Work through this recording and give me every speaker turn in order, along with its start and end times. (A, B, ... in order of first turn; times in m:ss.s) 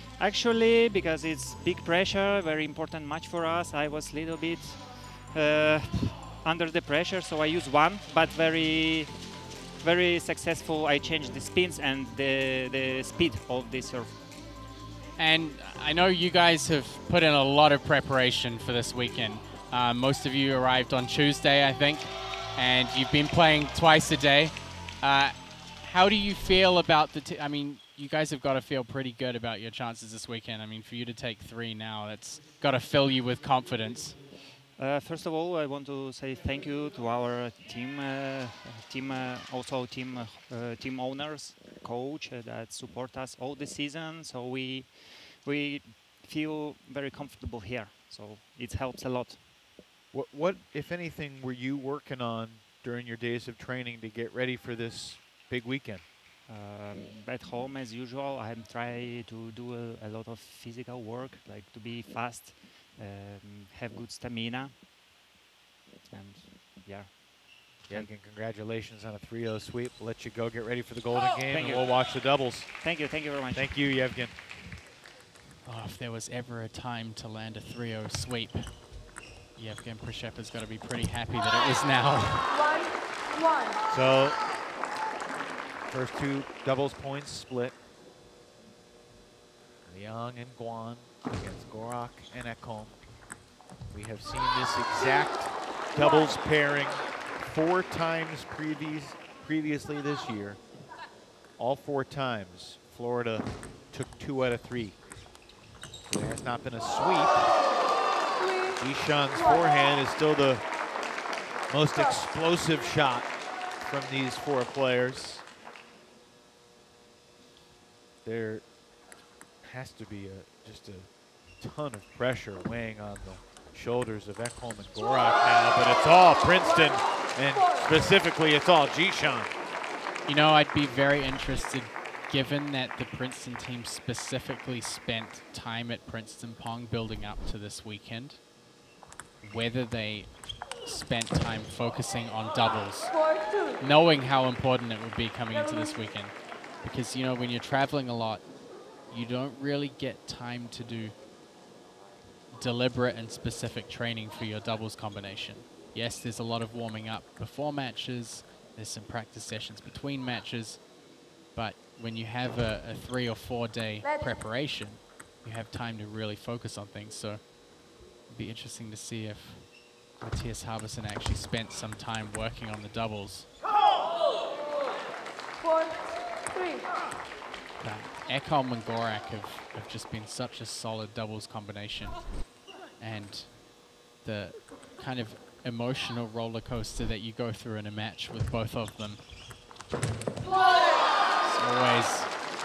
0:00.2-0:14.2 A
0:15.2-0:34.2 B
0:34.7-0:49.4 A
0:50.1-0:56.0 C
0:56.5-1:04.8 A
1:06.0-1:08.1 A
1:07.9-1:12.8 C
1:11.5-1:11.9 A
1:12.8-1:13.8 A
1:13.5-1:14.4 C
1:15.6-1:19.0 B
1:19.5-1:22.5 B
1:22.5-1:23.8 D
1:23.9-1:24.4 C
1:25.9-1:27.8 C
1:29.8-1:33.0 C
1:33.9-1:40.6 C
1:36.0-1:36.3 D
1:41.6-1:45.0 C
1:46.0-1:47.5 C
1:48.4-1:49.7 D
1:48.8-1:50.6 C
1:51.7-1:55.4 C
1:51.9-1:52.2 D
1:58.2-1:58.7 C
1:59.6-2:09.5 C
2:06.6-2:08.0 D
2:10.2-2:18.4 B
2:19.4-2:23.1 B
2:23.1-2:23.8 D
2:23.8-2:28.5 B
2:25.5-2:26.0 D
2:29.1-2:31.1 B
2:32.5-2:47.6 B
2:44.0-2:44.4 D
2:48.2-2:53.5 B
2:55.6-2:56.9 D
2:57.8-3:02.4 B
3:03.0-3:09.2 B
3:11.4-3:12.3 B